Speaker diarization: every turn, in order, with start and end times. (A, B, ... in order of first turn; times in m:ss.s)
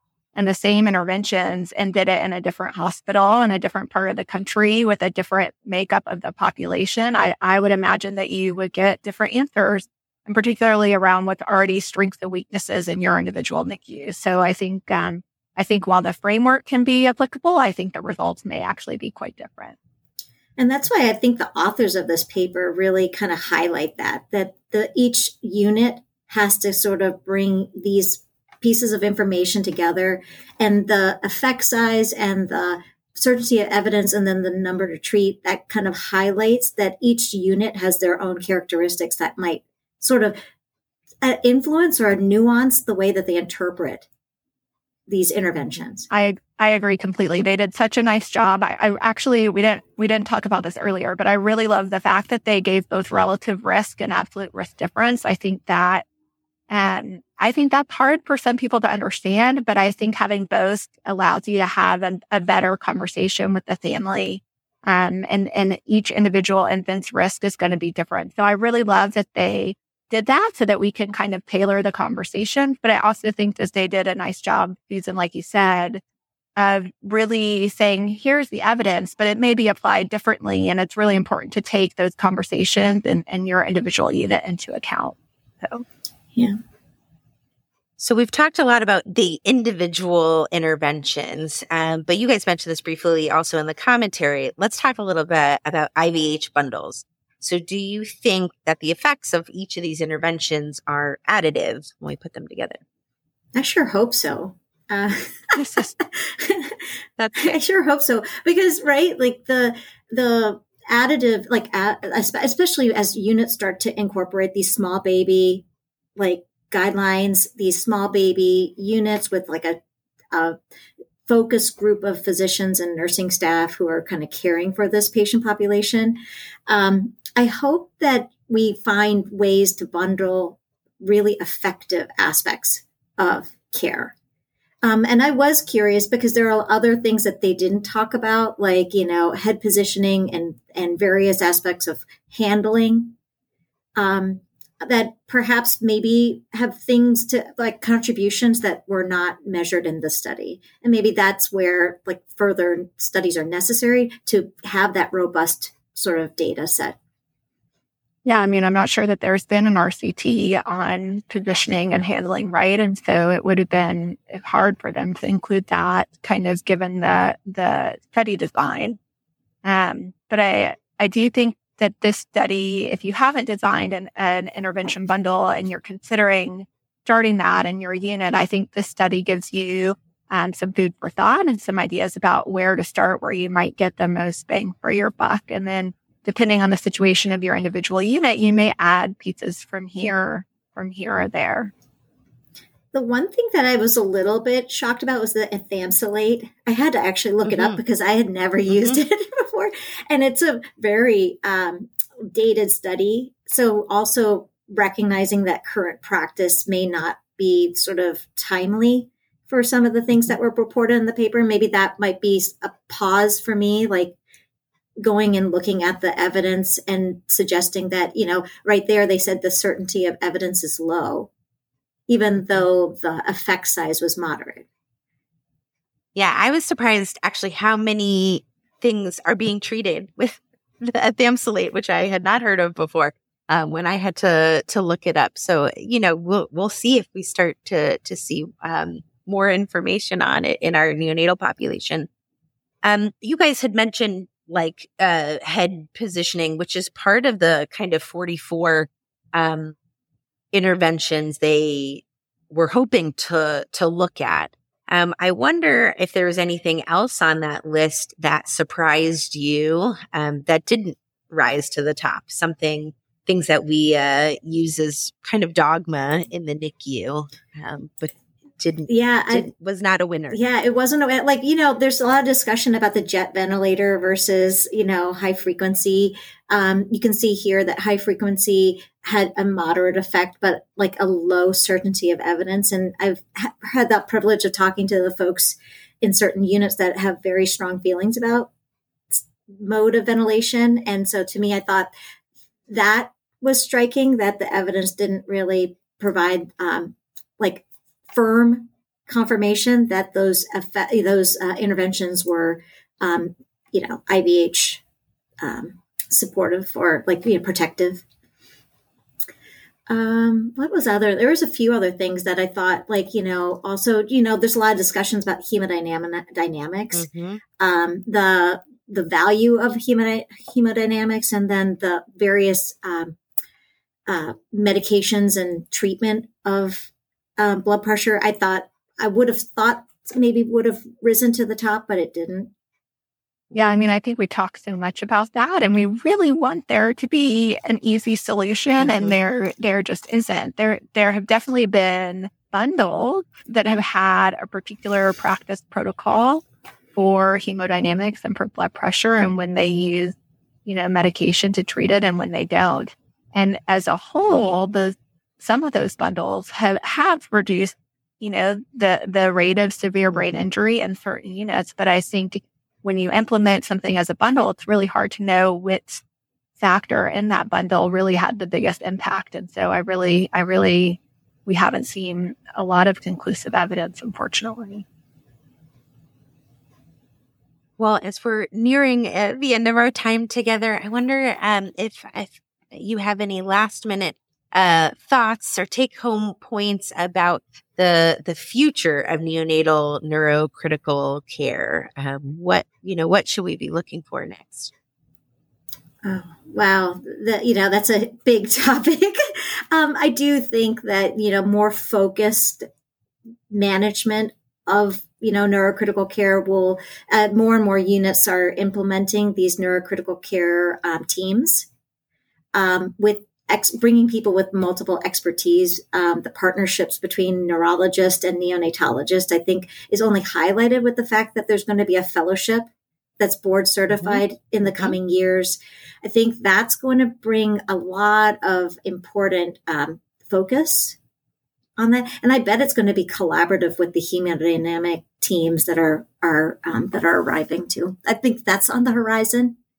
0:00.3-0:19.8 A
0:20.6-0:40.4 B
0:41.2-0:44.1 B
0:45.1-0:46.1 B
0:46.1-0:56.0 A
0:56.7-1:16.0 A
1:16.6-1:25.8 A
1:28.0-1:42.8 C
1:43.5-1:45.6 B
1:45.6-1:45.9 A
1:46.1-1:46.8 B
1:47.2-1:47.5 C
1:47.3-1:55.6 B
1:56.2-1:59.8 B
2:00.3-2:00.6 B
2:01.3-2:14.1 B
2:14.8-2:23.1 B
2:24.0-2:37.0 B
2:38.2-2:49.0 A
2:49.6-3:11.7 A
3:12.9-3:34.2 B
3:17.4-3:17.8 C
3:18.7-3:19.0 C
3:35.0-3:41.3 B
3:42.1-3:44.6 B
3:46.1-4:02.1 C
4:02.8-4:09.7 C
4:10.5-4:30.4 C
4:28.9-4:29.5 B
4:30.3-4:48.5 B
4:49.1-4:51.9 B
4:52.7-5:04.8 B
5:05.4-5:08.0 B
5:09.9-5:23.2 B
5:16.9-5:17.4 C
5:24.1-5:32.5 B
5:33.5-5:46.4 A
5:46.9-5:50.1 A
5:50.6-6:06.0 A
6:06.6-6:14.8 A
6:17.8-6:34.7 C
6:36.0-6:42.6 B
6:43.5-6:51.7 B
6:52.5-7:11.0 B
7:11.8-7:19.6 B